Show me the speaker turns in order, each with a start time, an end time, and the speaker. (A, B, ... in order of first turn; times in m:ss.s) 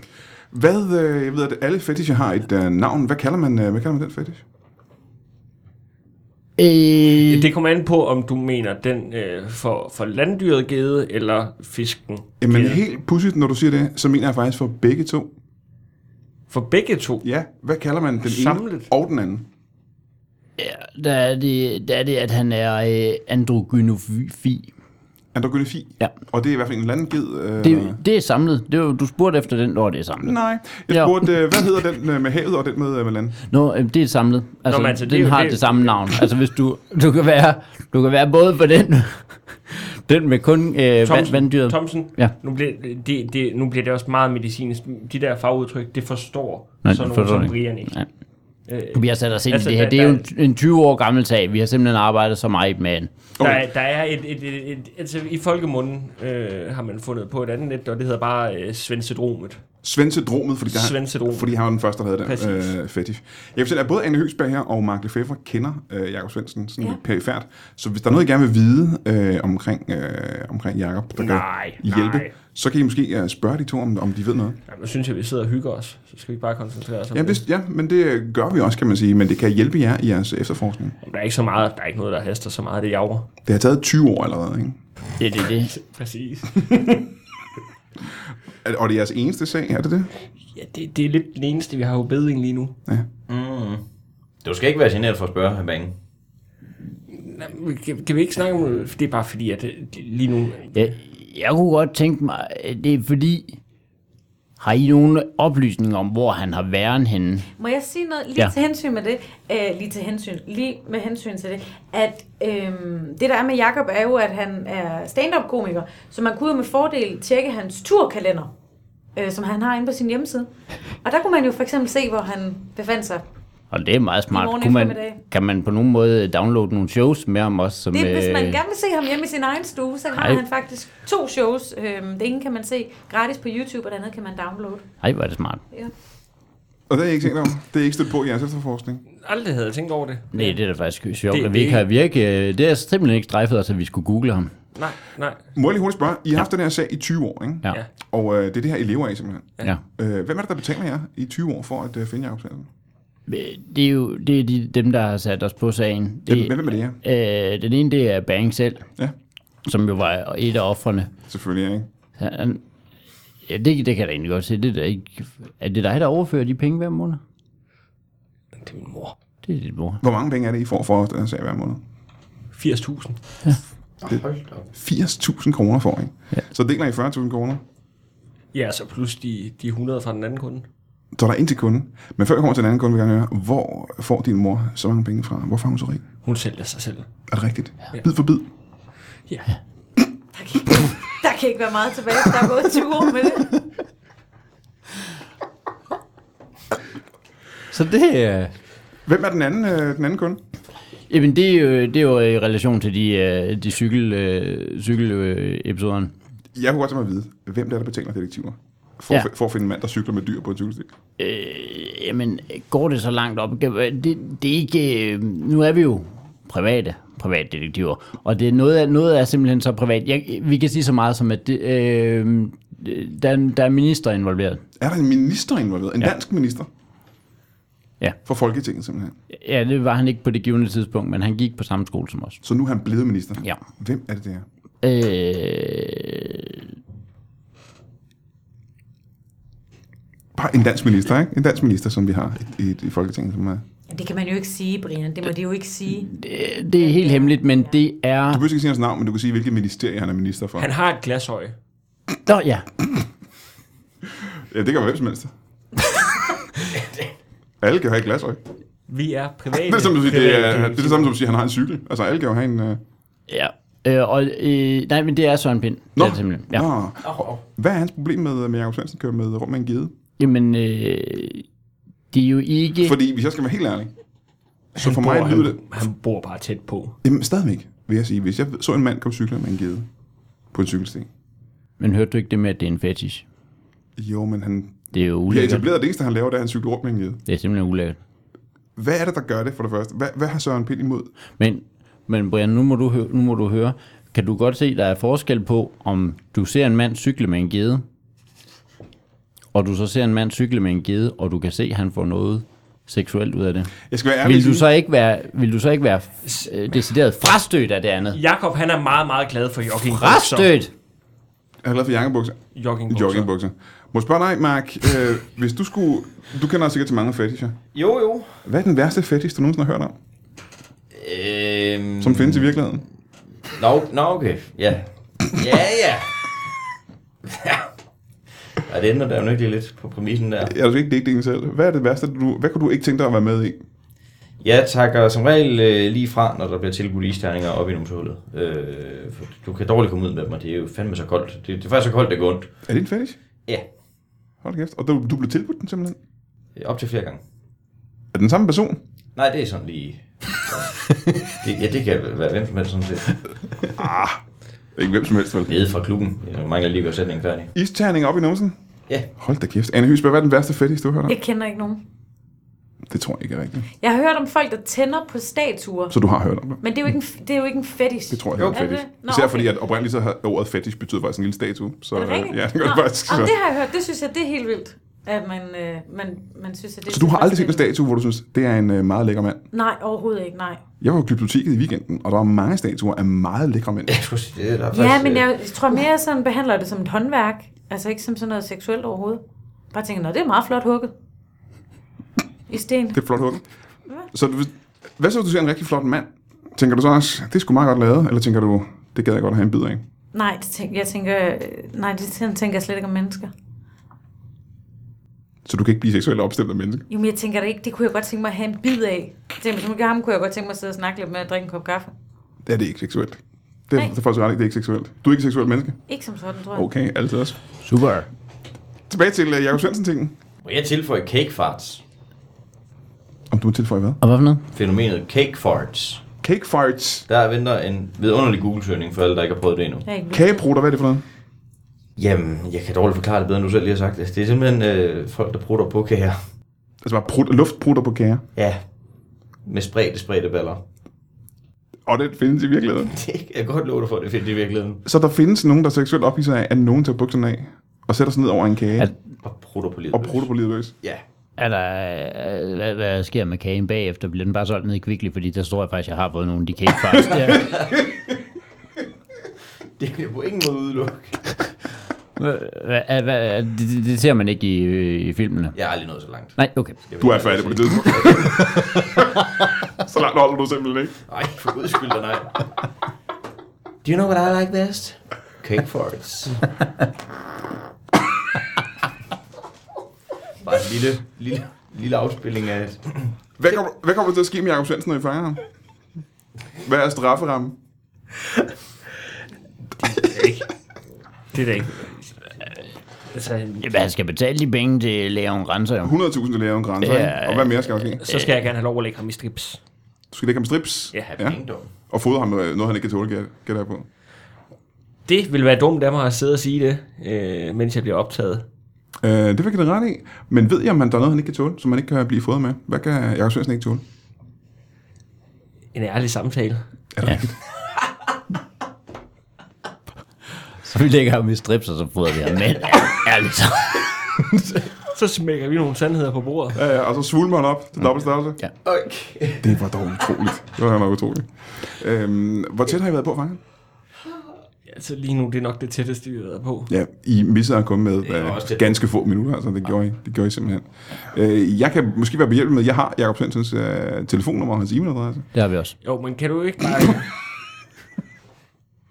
0:00.5-0:04.4 A
0:06.6-0:07.5 B
0:07.2-0:12.8 C
0:12.4-0:15.3 A
0:16.5-0:17.2 C
0:17.2-0:19.5 A
0:18.2-0:18.9 C
0:20.6-0:24.7 B
0:25.3-0:28.0 A
0:27.6-0:30.4 B
0:30.2-0:33.4 A
0:30.9-0:31.3 B
0:33.5-0:42.3 B
0:34.7-0:36.2 C
0:41.0-0:48.0 C
0:46.8-0:48.1 B
0:48.7-0:50.3 C
0:48.9-0:53.1 B
0:53.4-0:59.6 C
0:59.8-1:14.6 A
1:00.7-1:01.5 C
1:02.2-1:02.8 C
1:11.2-1:12.3 C
1:14.7-1:17.4 C
1:17.1-1:21.0 A
1:21.0-1:23.3 C
1:23.5-1:24.8 A
1:25.2-1:25.7 B
1:25.7-1:26.9 C
1:26.7-1:27.0 A
1:28.6-1:30.1 A
1:30.5-1:32.8 C
1:33.3-1:33.8 D
1:34.4-1:36.0 D
1:37.1-1:40.9 C
1:40.8-1:43.6 B
1:44.6-1:47.5 B
1:47.6-1:58.5 E
1:59.2-2:00.5 E
2:01.0-2:03.2 E
2:03.7-2:08.6 B
2:04.3-2:05.2 E
2:07.9-2:14.8 E
2:10.1-2:10.4 B
2:15.0-2:15.6 B
2:16.9-2:19.0 A
2:19.2-2:20.6 C
2:20.3-2:24.5 B
2:21.3-2:21.8 C
2:24.8-2:25.4 C
2:25.6-2:32.7 A
2:33.3-2:38.9 B
2:36.3-2:37.0 A
2:39.6-2:41.1 B
2:41.3-2:41.9 A
2:42.2-2:42.6 B
2:43.5-2:47.2 B
2:48.6-2:49.2 C
2:49.4-2:50.0 B
2:50.0-2:51.8 A
2:52.5-2:53.2 C
2:54.0-2:54.7 D
2:54.7-2:57.6 A
2:58.5-3:00.6 C
3:01.2-3:06.0 A
3:06.2-3:07.1 C
3:07.3-3:08.4 A
3:09.3-3:09.6 C
3:10.3-3:13.6 E
3:17.7-3:18.5 B
3:19.1-3:20.4 A
3:21.1-3:26.1 B
3:26.6-3:30.9 A
3:31.2-3:44.6 B
3:44.8-3:46.7 A
3:48.2-3:49.2 A
3:49.3-3:52.4 B
3:52.4-3:54.5 A
3:54.8-3:56.7 B
4:00.4-4:03.6 A
4:03.9-4:06.1 E
4:06.0-4:08.4 B
4:06.8-4:07.7 E
4:08.3-4:10.7 A
4:10.6-4:11.6 C
4:12.3-4:12.7 B
4:14.5-4:15.3 A
4:17.6-4:18.4 A
4:18.9-4:21.2 C
4:19.5-4:22.8 A
4:23.3-4:26.7 B
4:26.0-4:29.9 A
4:27.0-4:27.4 D
4:30.2-4:31.5 B
4:32.1-4:33.0 B
4:32.8-4:33.9 A
4:34.8-4:35.6 A
4:34.8-4:37.0 C
4:37.0-4:39.9 A
4:40.5-4:41.1 A
4:41.8-4:43.2 B
4:44.0-4:47.2 A
4:44.9-4:45.7 B
4:47.3-4:48.0 B
4:48.8-4:51.1 A
4:51.4-4:57.8 B
4:59.5-5:08.2 B
5:03.9-5:04.7 A
5:08.1-5:10.5 C
5:09.8-5:10.7 B
5:11.6-5:17.6 A
5:12.5-5:13.3 C
5:17.7-5:18.4 D
5:18.4-5:20.0 A
5:20.9-5:22.5 D
5:22.0-5:22.8 A
5:23.5-5:26.3 D
5:27.3-5:27.7 D
5:28.6-5:30.5 D
5:30.4-5:33.6 A
5:34.4-5:42.5 D
5:42.7-5:43.2 A
5:44.4-5:46.0 A
5:46.6-5:47.2 D
5:48.1-5:48.8 A
5:49.2-5:53.2 D
5:53.8-5:54.2 A
5:54.8-5:55.5 A
5:55.5-5:57.5 D
5:57.6-5:58.6 A
5:59.2-6:01.2 A
6:01.1-6:01.8 E
6:02.9-6:03.7 A
6:03.8-6:06.0 E
6:05.9-6:06.6 A
6:06.6-6:09.5 E
6:08.1-6:13.4 A
6:08.4-6:08.6 D
6:12.0-6:17.7 E
6:16.9-6:19.4 A
6:19.5-6:20.6 E
6:20.8-6:24.0 A
6:23.9-6:25.8 D
6:24.7-6:30.9 E
6:32.5-6:33.0 E
6:32.9-6:33.4 A
6:34.1-6:39.8 A
6:40.1-6:43.3 E
6:45.4-6:46.9 A
6:46.9-6:51.9 E
6:52.5-6:55.8 A
6:55.9-6:56.7 E
6:56.5-6:57.4 A
6:57.6-6:58.1 B
6:58.9-7:00.2 A
7:00.4-7:01.8 D
7:03.3-7:04.0 A
7:04.0-7:04.4 B
7:04.5-7:06.0 D
7:06.2-7:07.1 A
7:07.1-7:09.9 D
7:09.9-7:10.4 E
7:10.1-7:11.0 A
7:12.0-7:16.2 D
7:16.8-7:18.2 A
7:19.4-7:20.6 D
7:21.9-7:22.9 A
7:22.9-7:24.8 D
7:24.9-7:28.9 A
7:29.2-7:30.3 D
7:29.9-7:30.8 A
7:31.4-7:37.5 B
7:37.3-7:38.0 D
7:39.8-7:41.2 D
7:42.2-7:45.6 B
7:45.6-7:48.7 D
7:46.4-7:46.8 B
7:47.0-7:49.1 A
7:49.8-7:51.0 A
7:51.1-7:52.4 D
7:53.8-7:56.5 D
8:00.4-8:02.9 D
8:03.4-8:05.4 A
8:06.6-8:07.6 A
8:09.8-8:10.5 C
8:11.3-8:12.3 C
8:13.1-8:13.6 C
8:13.6-8:15.9 B
8:15.8-8:18.0 A
8:16.8-8:17.8 B
8:18.0-8:19.6 C
8:20.1-8:23.9 A
8:20.9-8:21.2 C
8:21.2-8:21.7 D
8:25.1-8:28.5 C
8:29.0-8:33.8 A
8:35.7-8:36.6 C
8:36.9-8:37.3 A
8:40.6-8:44.6 B
8:44.8-8:46.6 C
8:46.6-8:48.4 A
8:48.6-8:49.5 D
8:49.4-8:53.4 A
8:54.7-8:56.7 C
8:56.7-9:05.3 A
8:58.0-8:58.8 D
9:05.3-9:05.8 B
9:05.8-9:07.1 C